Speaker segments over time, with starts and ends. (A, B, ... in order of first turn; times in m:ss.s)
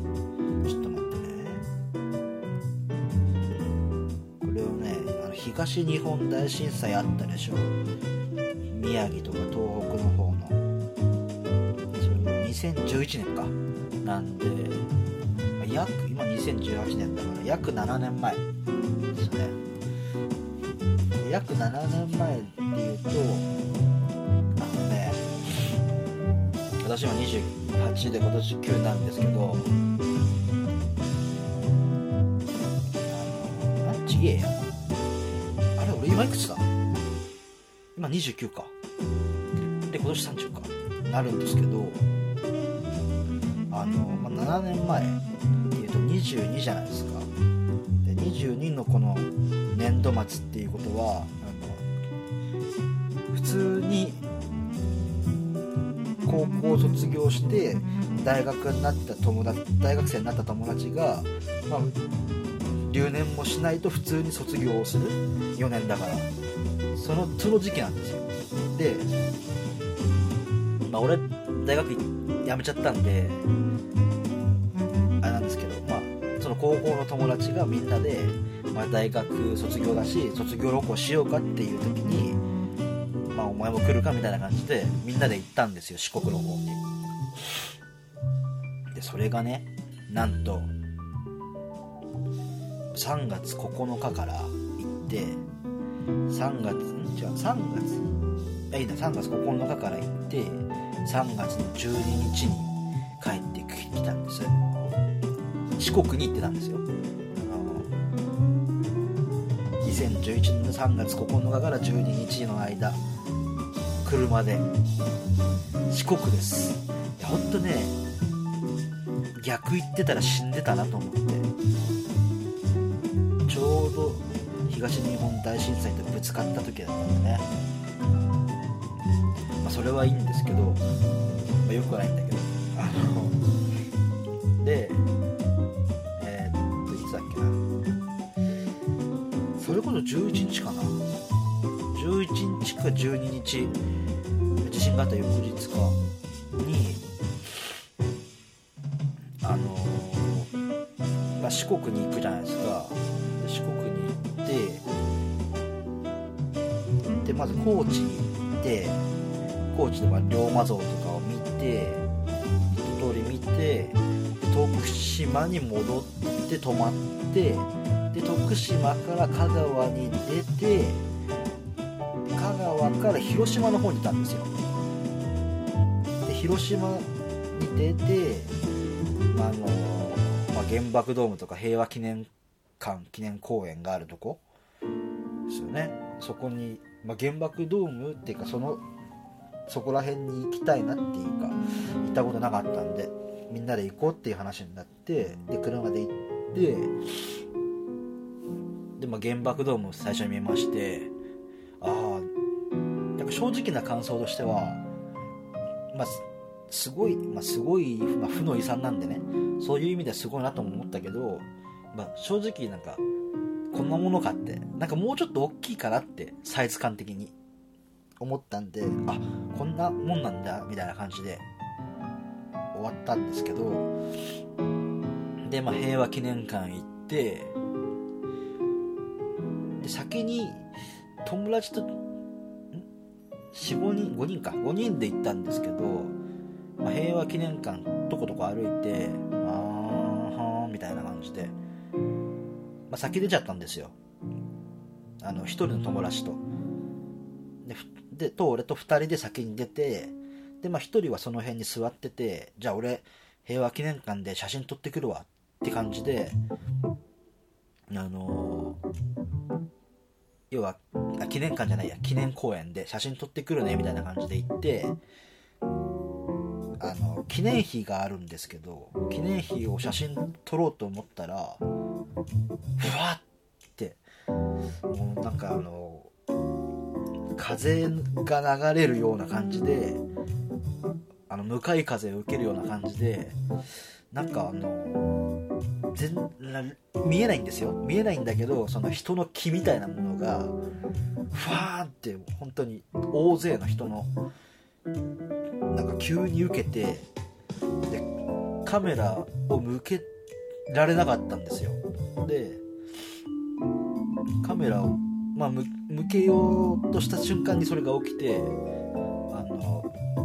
0:00.6-0:01.7 A
0:04.4-0:07.8 A
0:08.7-0:10.6 A
0:11.9-0:14.9 A
0:15.6-0:18.4 A
0:19.1-0:19.6 A
0:21.2-0:23.5 A
0:24.6-0:25.2 A
0:26.8-0:29.7 A
0:33.1-0:34.7 A
0:35.8-0:36.7 A
0:38.0-0:38.7 A
0:39.9-0:42.0 A
0:43.7-0:47.3 A
0:48.0-0:51.9 A
0:53.3-0:54.2 A
0:56.2-1:02.0 A
1:02.9-1:06.3 A
1:06.9-1:09.1 A
1:10.9-1:13.5 A
1:15.2-1:22.4 A
1:23.3-1:26.8 A
1:29.0-1:30.7 A
1:32.9-1:35.4 A
1:36.3-1:38.2 A
1:38.7-1:44.6 A
1:45.8-1:47.9 A
1:49.8-1:53.0 A
1:54.0-1:54.7 A
1:55.9-1:58.0 A
1:59.4-2:01.5 A
2:03.5-2:07.5 A
2:09.6-2:10.8 A
2:11.6-2:13.4 A
2:14.6-2:15.0 A
2:16.2-2:17.6 A
2:19.6-2:21.0 A
2:21.9-2:23.8 A
2:24.6-2:26.0 A
2:26.6-2:27.0 A
2:29.4-2:30.5 A
2:31.4-2:34.8 A
2:37.2-2:39.0 A
2:39.7-2:42.1 A
2:42.8-2:51.1 A
2:52.3-2:54.5 A
2:56.2-2:58.5 A
2:59.3-3:04.4 A
3:05.5-3:08.8 A
3:09.7-3:16.9 A
3:19.0-3:21.1 A
3:21.8-3:22.3 A
3:23.2-3:24.8 A
3:25.9-3:33.0 A
3:33.7-3:37.3 A
3:38.2-3:41.4 A
3:42.7-3:43.9 A
3:45.4-3:47.6 A
3:49.8-3:50.7 A
3:51.2-3:52.0 A
3:53.5-3:56.2 A
3:56.8-4:01.6 A
4:02.9-4:04.0 A
4:05.2-4:06.4 A
4:07.6-4:16.4 A
4:17.9-4:18.8 A
4:20.5-4:25.0 A
4:26.8-4:31.6 A
4:32.8-4:33.2 A
4:33.8-4:34.0 A
4:34.9-4:36.1 A
4:37.4-4:40.0 A
4:41.3-4:43.4 A
4:44.1-4:45.1 A
4:45.9-4:50.6 A
4:51.3-4:54.1 A
4:55.7-4:57.1 A
4:58.6-5:00.1 A
5:00.7-5:02.6 A
5:04.4-5:08.6 A
5:09.3-5:09.9 A